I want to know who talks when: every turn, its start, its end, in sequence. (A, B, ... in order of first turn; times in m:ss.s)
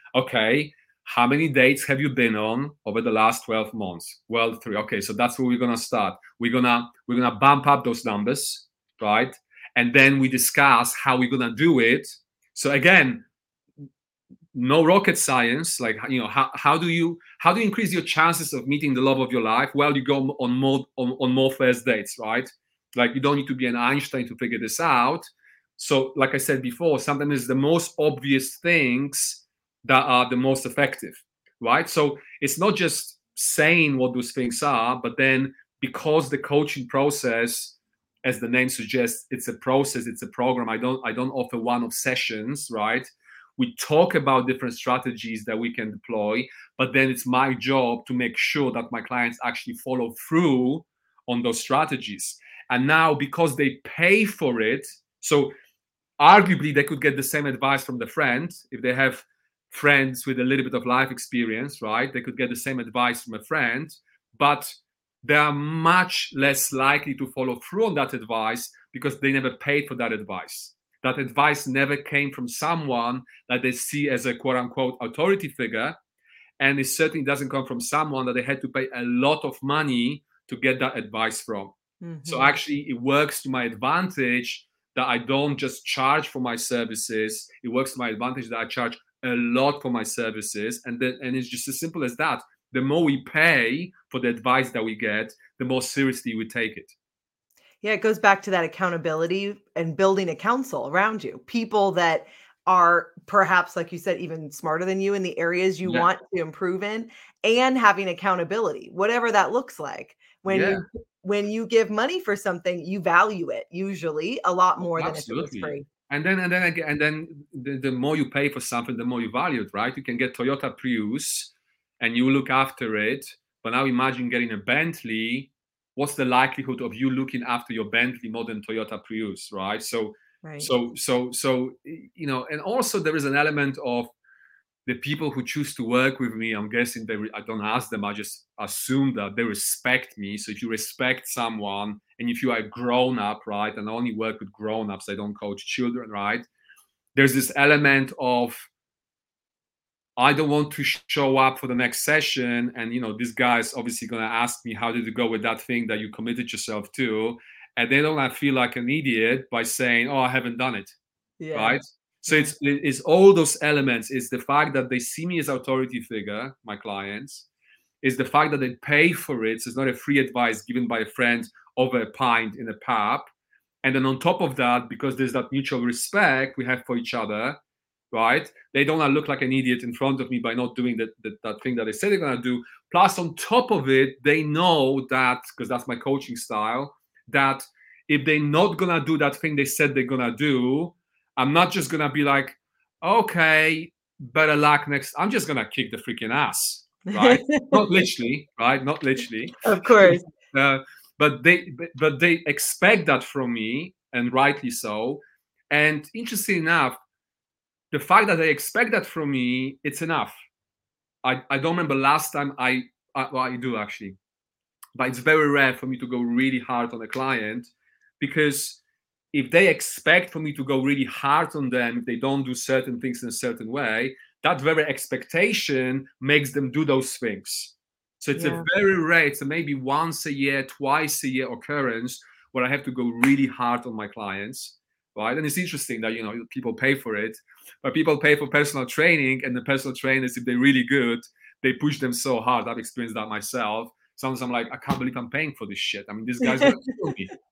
0:00.1-0:13.2 A
0:14.5-0:55.5 A
0:56.2-1:16.0 A
1:16.6-1:21.7 A
1:22.0-1:22.6 B
1:22.2-1:36.9 A
1:37.8-1:55.9 B
1:45.8-1:46.1 A
1:50.4-1:50.8 A
1:54.9-2:14.1 A
2:10.4-2:10.7 B
2:14.8-2:26.4 A
2:27.2-2:28.7 A
2:30.2-2:40.9 A
2:41.4-2:42.5 B
2:41.5-2:47.4 A
2:48.0-2:53.3 A
2:53.8-2:57.6 A
2:58.1-3:27.0 A
3:17.1-3:17.8 B
3:19.6-3:20.2 B
3:27.9-3:30.4 A
3:31.2-3:34.2 A
3:35.0-3:38.8 A
3:39.3-4:07.3 A
3:48.3-3:48.7 B